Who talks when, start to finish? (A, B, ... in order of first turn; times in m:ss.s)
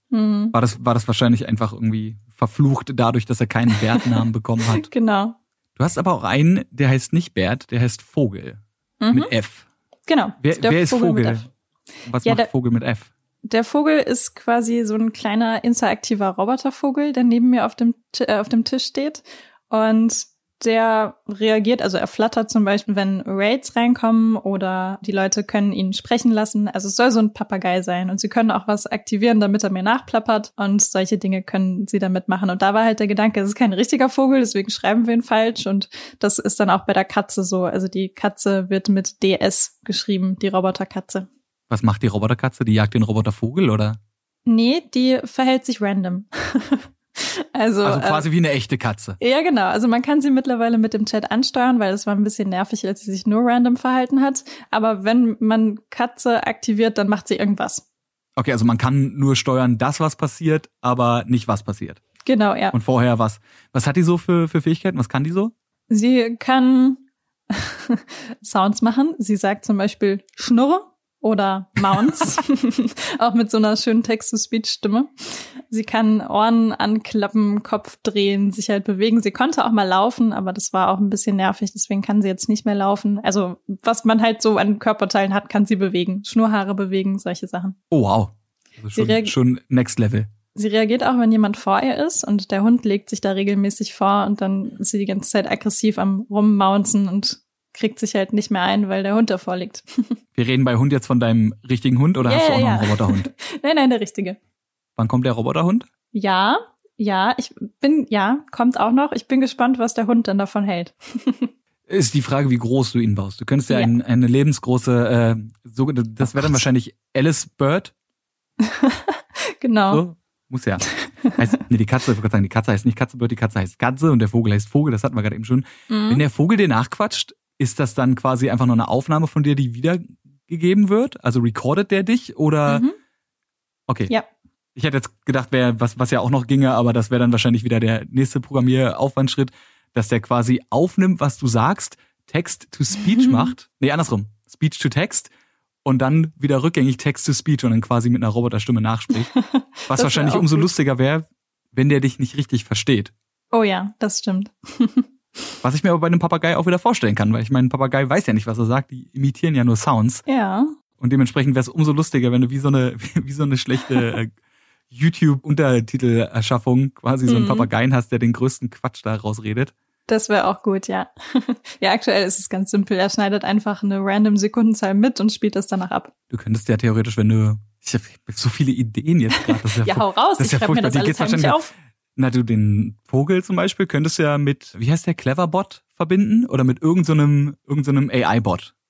0:00.1-0:00.6 A
0:00.5-0:04.9 B
0:03.9-0:04.2 A
0:04.8-0:05.4 A
0:05.8-0:08.6 B
0:09.0-0:09.3 A
0:09.1-0:09.6 B
0:10.1-0:11.5 A
0:10.4-0:11.5 B
0:12.0-0:13.1 B
0:12.2-0:12.5 A
0:13.4-0:41.3 A
0:41.7-0:44.0 B
0:44.4-0:48.2 A
0:47.8-0:49.2 B
0:49.2-0:57.8 A
0:58.4-1:02.0 B
1:02.2-1:02.8 A
1:02.7-1:05.5 B
1:05.9-1:27.8 A
1:27.9-1:30.3 B
1:28.9-1:29.3 A
1:30.5-1:40.1 A
1:40.3-1:43.3 B
1:42.2-1:44.4 A
1:45.0-1:45.9 B
1:46.1-1:51.5 A
1:51.9-1:57.9 B
1:53.7-1:53.9 A
1:56.3-1:56.6 A
1:58.6-2:00.0 A
1:59.9-2:00.8 B
2:01.2-2:01.5 A
2:01.4-2:12.8 B
2:05.9-2:06.2 A
2:12.7-2:12.9 A
2:14.8-2:25.3 B
2:23.0-2:23.5 A
2:25.8-2:29.3 B
2:29.3-2:30.7 A
2:29.9-2:33.1 B
2:33.5-2:35.0 A
2:35.6-2:40.2 B
2:40.2-2:40.7 A
2:41.0-2:44.3 B
2:44.9-2:49.7 B
2:47.3-2:47.7 A
2:50.1-2:56.1 A
2:56.3-3:01.6 B
2:59.3-3:01.7 A
3:02.2-3:08.7 B